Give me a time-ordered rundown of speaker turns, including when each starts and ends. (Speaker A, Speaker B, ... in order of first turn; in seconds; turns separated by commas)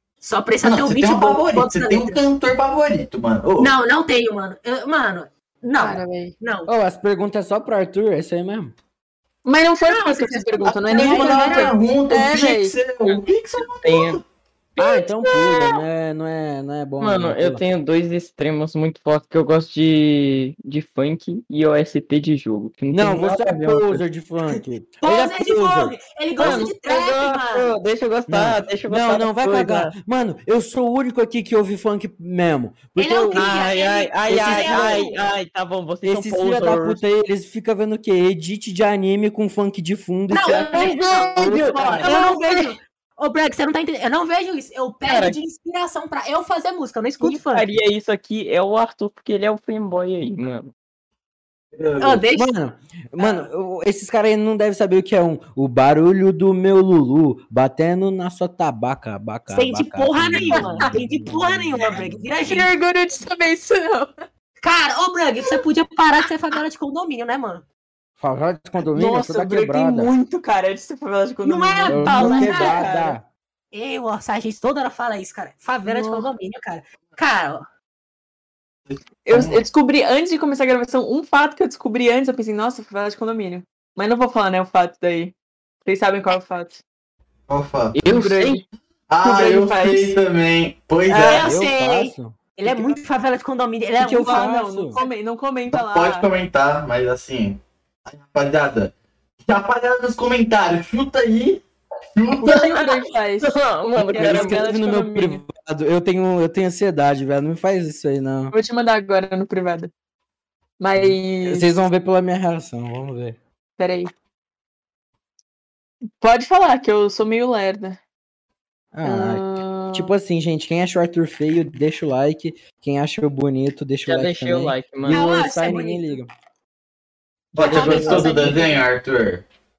Speaker A: 0.2-2.2, Speaker B: 0.6-3.8, Speaker A: 3.6-6.7, Speaker C: 5.8-6.3, Speaker D: 6.7-8.7, Speaker C: 9.4-13.2, Speaker A: 9.8-11.8, Speaker B: 10.7-14.2, Speaker E: 13.8-14.2, Speaker D: 14.8-17.6, Speaker E: 14.8-15.1, Speaker E: 17.0-24.0, Speaker D: 22.9-26.7, Speaker A: 25.0-27.8, Speaker E: 26.4-29.9, Speaker D: 28.3-33.5, Speaker A: 33.0-35.2, Speaker E: 33.3-37.0, Speaker D: 34.3-35.1, Speaker D: 36.0-40.9, Speaker A: 40.3-47.7, Speaker E: 40.4-42.7, Speaker D: 41.4-42.0, Speaker E: 45.0-45.4, Speaker E: 47.2-50.7, Speaker B: 51.7-52.3, Speaker A: 52.0-52.5, Speaker D: 52.3-62.3, Speaker A: 53.2-53.5, Speaker A: 59.5-62.7, Speaker C: 62.5-64.1, Speaker A: 64.6-67.7, Speaker D: 68.2-70.1, Speaker C: 68.9-73.2, Speaker A: 71.4-72.9, Speaker D: 71.9-73.3, Speaker A: 73.7-77.7, Speaker C: 75.9-76.3, Speaker B: 78.9-79.6, Speaker C: 79.3-86.8, Speaker B: 87.5-88.0, Speaker E: 87.9-88.6, Speaker C: 88.1-88.6, Speaker B: 89.1-91.5, Speaker C: 89.2-90.2, Speaker C: 91.1-91.4, Speaker A: 91.1-95.1, Speaker D: 91.4-93.0, Speaker D: 94.0-95.0, Speaker C: 94.0-96.3, Speaker B: 95.7-98.9, Speaker B: 99.4-102.7, Speaker C: 102.4-105.4, Speaker E: 102.5-104.7, Speaker D: 104.0-108.5, Speaker C: 108.5-109.9, Speaker C: 110.8-111.7, Speaker D: 111.0-113.4, Speaker C: 113.8-114.1, Speaker C: 116.2-118.0, Speaker D: 118.9-126.3, Speaker C: 119.0-120.2, Speaker E: 124.1-125.3, Speaker A: 125.1-126.2, Speaker B: 127.5-129.5, Speaker A: 127.6-128.8, Speaker E: 127.6-128.2